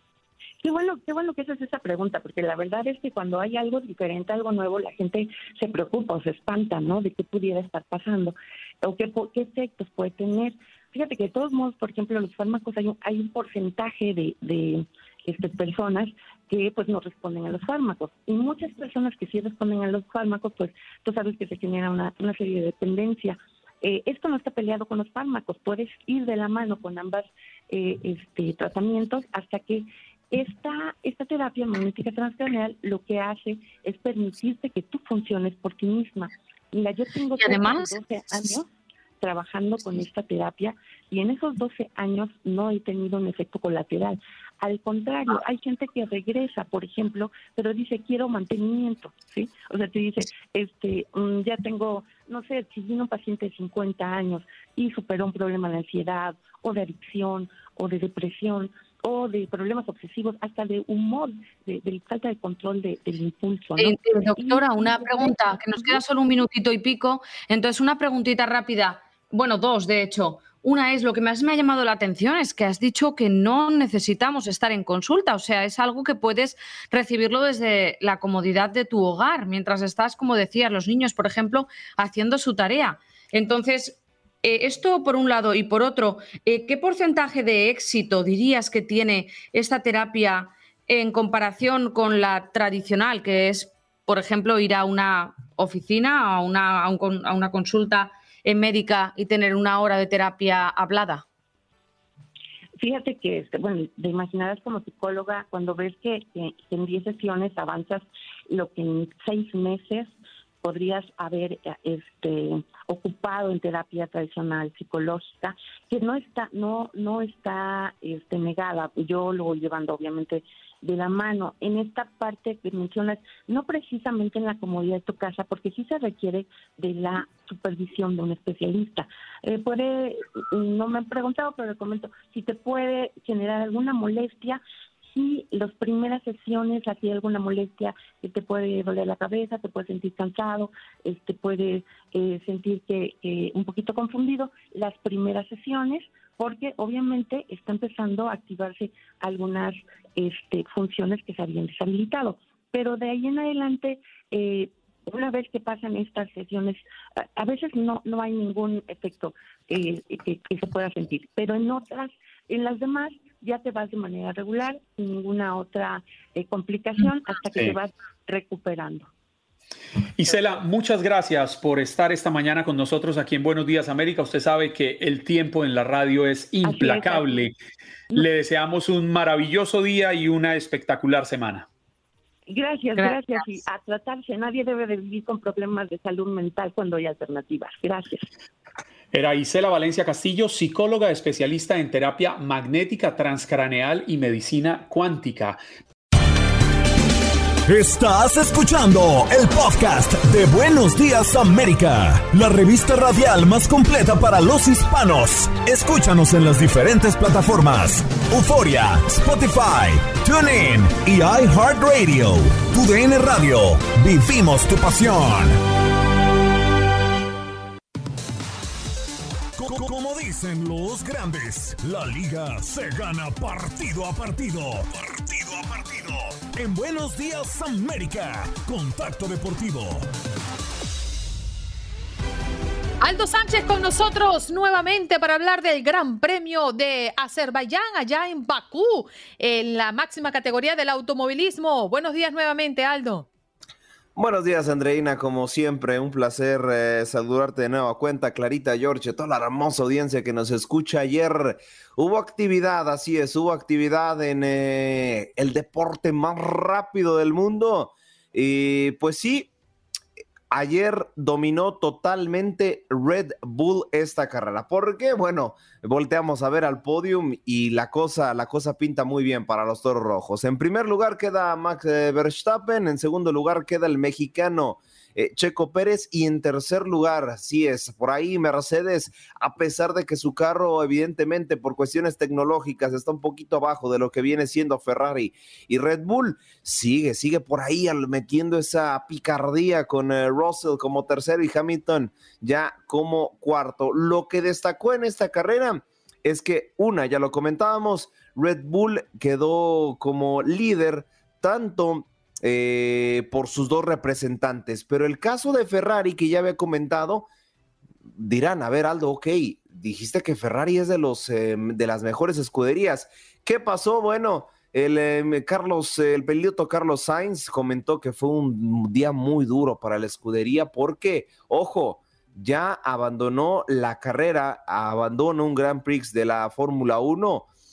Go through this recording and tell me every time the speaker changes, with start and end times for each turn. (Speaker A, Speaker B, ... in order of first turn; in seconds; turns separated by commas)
Speaker A: 0.6-38.7, Speaker B: 37.4-38.5, Speaker A: 39.2-66.0, Speaker B: 63.8-101.2, Speaker A: 102.8-134.6, Speaker A: 135.1-169.1, Speaker C: 170.2-177.6, Speaker A: 176.6-177.5, Speaker C: 178.1-181.7, Speaker A: 182.5-188.2, Speaker C: 189.1-195.6, Speaker D: 197.7-215.6, Speaker D: 219.6-230.1, Speaker E: 233.0-243.3, Speaker F: 244.2-259.5, Speaker F: 260.5-307.3, Speaker F: 308.2-327.5